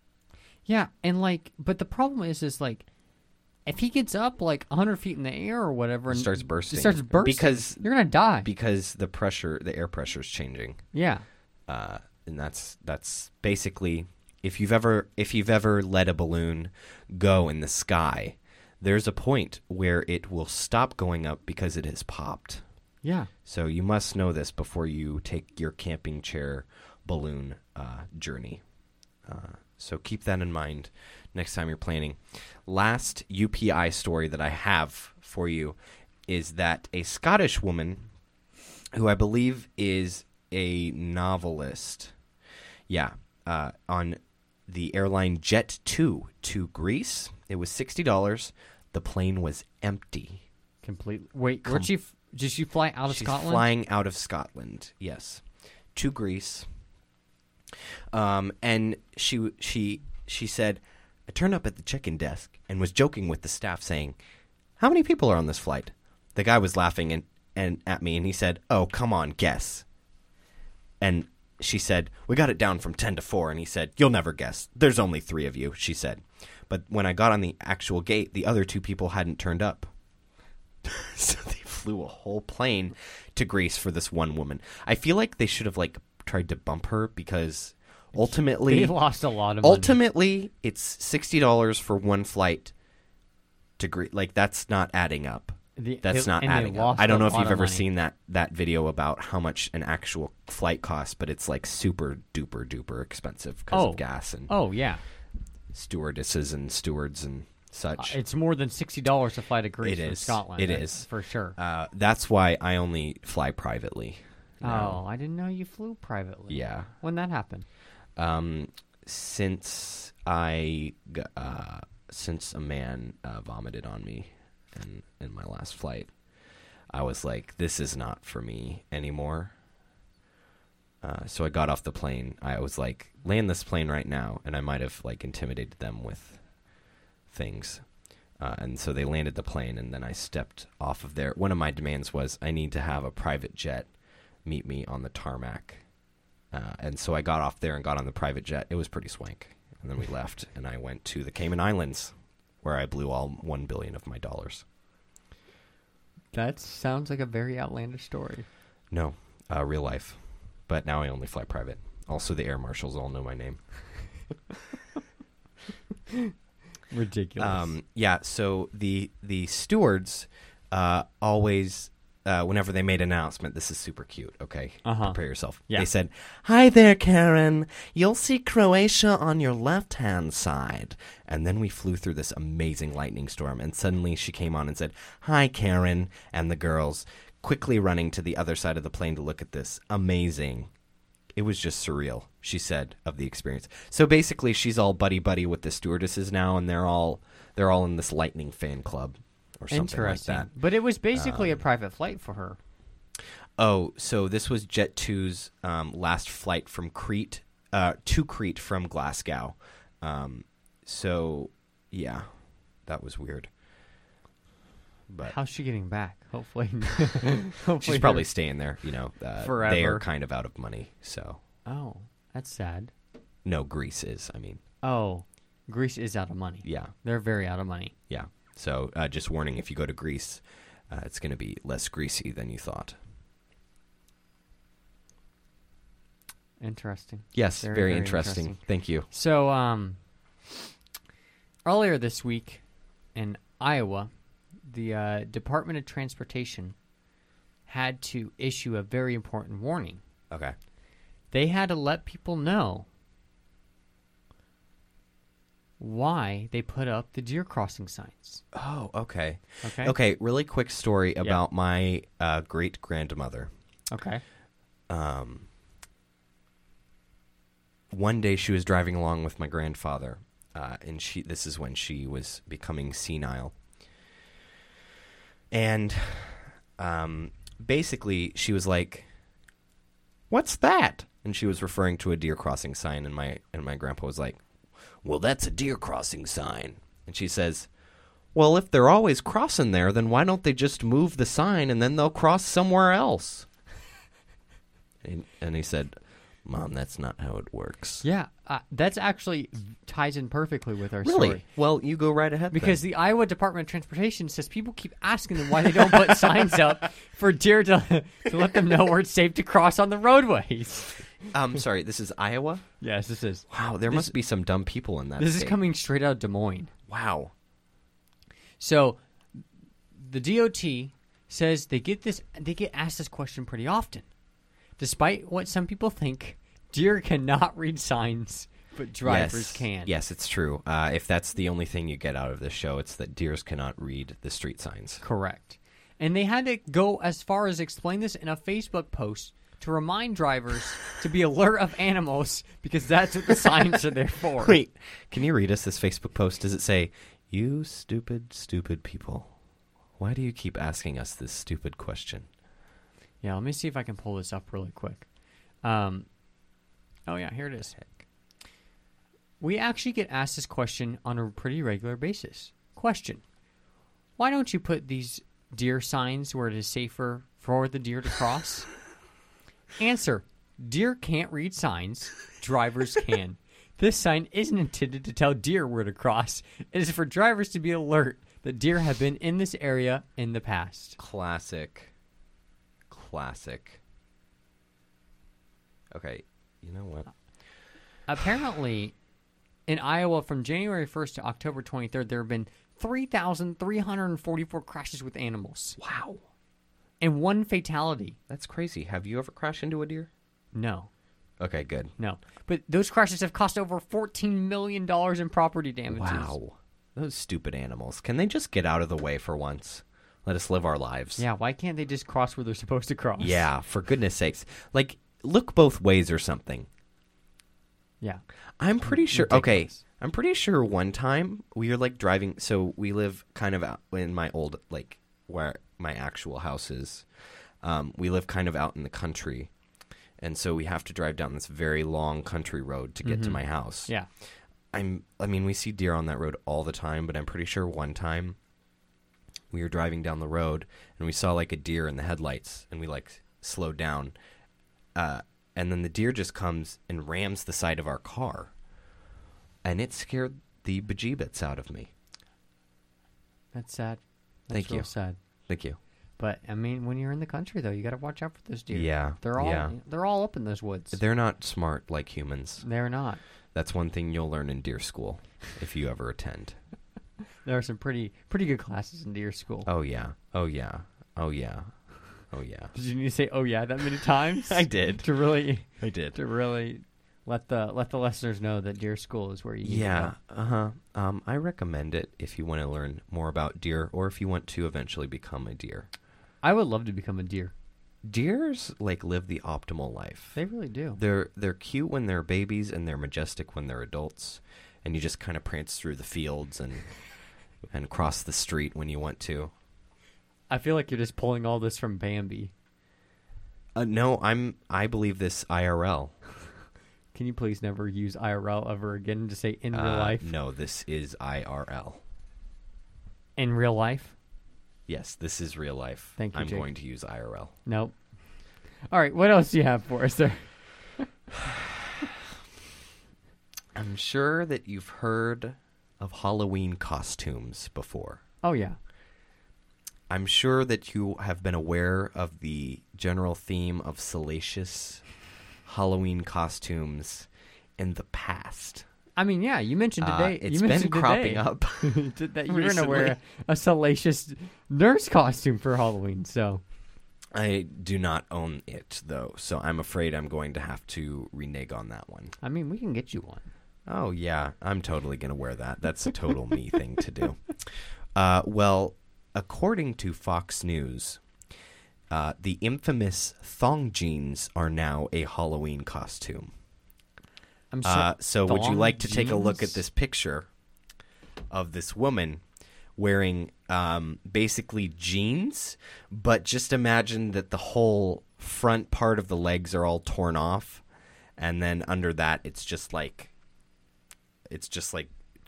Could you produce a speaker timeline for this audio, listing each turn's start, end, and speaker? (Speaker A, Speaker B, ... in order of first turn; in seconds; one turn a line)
Speaker A: 0.7-2.9
Speaker A: 3.7-8.5
Speaker B: 6.1-7.9
Speaker B: 8.4-10.8
Speaker A: 10.9-11.2
Speaker B: 11.7-22.6
Speaker A: 23.0-23.3
Speaker B: 23.4-28.6
Speaker B: 29.3-35.8
Speaker B: 36.3-38.1
Speaker B: 38.9-42.1
Speaker B: 42.9-50.4
Speaker A: 50.8-53.7
Speaker B: 51.6-51.9
Speaker B: 53.1-55.4
Speaker B: 56.0-56.7
Speaker B: 58.1-64.2
Speaker B: 64.8-69.8
Speaker B: 71.0-79.9
Speaker B: 80.8-89.0
Speaker A: 88.1-90.0
Speaker B: 89.6-92.7
Speaker B: 93.8-104.5
Speaker A: 95.8-97.9
Speaker A: 103.7-105.0
Speaker B: 105.7-108.2
Speaker A: 108.0-111.6
Speaker B: 109.8-115.0
Speaker A: 114.6-117.7
Speaker B: 116.5-116.9
Speaker B: 118.2-126.1
Speaker B: 126.9-129.5
Speaker B: 131.0-136.4
Speaker B: 137.3-137.9
Speaker B: 138.4-143.9
Speaker B: 144.4-145.8
Speaker B: 146.5-154.7
Speaker A: 156.3-158.5
Speaker B: 158.9-163.6
Speaker A: 166.9-167.7
Speaker B: 167.4-190.7
Speaker A: 174.8-175.9
Speaker B: 191.4-200.5
Speaker A: 199.7-202.6
Speaker B: 201.1-201.6
Speaker B: 203.6-212.3
Speaker B: 212.8-213.5
Speaker B: 215.1-215.4
Speaker A: 215.2-218.3
Speaker B: 217.8-221.4
Speaker A: 219.4-220.1
Speaker A: 221.7-222.9
Speaker B: 223.4-224.6
Speaker A: 224.8-227.9
Speaker B: 226.6-226.9
Speaker B: 228.1-233.0
Speaker A: 236.6-238.6
Speaker B: 237.3-239.1
Speaker A: 239.1-240.0
Speaker A: 241.7-242.6
Speaker A: 243.2-244.1
Speaker A: 244.6-246.8
Speaker A: 247.7-250.0
Speaker A: 251.3-252.9
Speaker A: 255.8-258.4
Speaker B: 258.5-263.5
Speaker A: 259.6-259.9
Speaker A: 263.9-264.2
Speaker B: 264.9-265.5
Speaker B: 267.9-273.6
Speaker B: 275.5-279.1
Speaker B: 280.3-284.4
Speaker B: 285.0-287.7
Speaker B: 288.3-293.5
Speaker B: 295.0-298.1
Speaker A: 298.0-301.4
Speaker B: 301.0-302.8
Speaker A: 302.5-311.0
Speaker B: 311.3-312.6
Speaker A: 312.8-314.1
Speaker B: 313.5-315.6
Speaker A: 315.2-316.7
Speaker B: 316.9-317.3
Speaker A: 318.6-319.0
Speaker A: 319.9-324.1
Speaker A: 324.8-329.9
Speaker B: 329.0-335.0
Speaker A: 335.0-344.6
Speaker B: 344.4-349.3
Speaker B: 350.0-352.3
Speaker A: 353.2-355.1
Speaker A: 355.6-356.1
Speaker A: 357.1-357.8
Speaker A: 359.4-363.2
Speaker A: 364.2-368.7
Speaker A: 369.8-381.0
Speaker B: 381.0-381.9
Speaker B: 382.9-383.8
Speaker B: 385.9-387.1
Speaker A: 388.1-388.9
Speaker A: 389.7-395.8
Speaker B: 395.8-396.2
Speaker A: 397.0-398.2
Speaker B: 398.3-400.1
Speaker A: 400.5-400.9
Speaker B: 401.4-401.9
Speaker A: 402.0-406.4
Speaker B: 405.9-411.2
Speaker A: 411.2-413.5
Speaker B: 413.2-416.7
Speaker B: 418.6-427.1
Speaker A: 418.9-419.8
Speaker B: 427.6-429.5
Speaker B: 430.2-433.9
Speaker A: 433.0-434.1
Speaker B: 434.7-438.4
Speaker B: 439.5-444.1
Speaker B: 444.9-448.5
Speaker B: 449.6-451.9
Speaker A: 453.5-455.2
Speaker B: 454.5-454.9
Speaker B: 455.5-455.8
Speaker A: 456.2-461.0
Speaker B: 458.7-459.8
Speaker B: 460.9-462.6
Speaker A: 462.6-463.2
Speaker B: 463.5-466.6
Speaker A: 467.4-469.7
Speaker B: 469.7-471.7
Speaker B: 472.3-472.7
Speaker A: 472.7-480.1
Speaker B: 474.4-475.1
Speaker B: 475.8-476.2
Speaker B: 479.6-485.9
Speaker A: 486.4-487.5
Speaker B: 488.0-490.4
Speaker A: 490.4-491.0
Speaker B: 491.0-496.9
Speaker B: 497.7-499.5
Speaker A: 500.5-502.5
Speaker B: 503.8-506.2
Speaker A: 507.1-510.3
Speaker B: 509.7-512.0
Speaker A: 513.4-514.1
Speaker B: 514.9-517.5
Speaker A: 516.2-516.7
Speaker A: 517.7-518.0
Speaker A: 518.9-521.1
Speaker B: 523.8-528.2
Speaker A: 528.4-528.8
Speaker B: 530.1-535.0
Speaker B: 535.6-538.9
Speaker A: 539.2-546.6
Speaker B: 540.0-543.2
Speaker B: 547.3-552.4
Speaker A: 552.4-553.5
Speaker B: 553.9-561.2
Speaker B: 562.1-566.5
Speaker A: 567.7-569.8
Speaker B: 567.8-570.5
Speaker B: 571.5-572.4
Speaker B: 573.0-580.8
Speaker B: 581.4-583.3
Speaker B: 584.5-585.1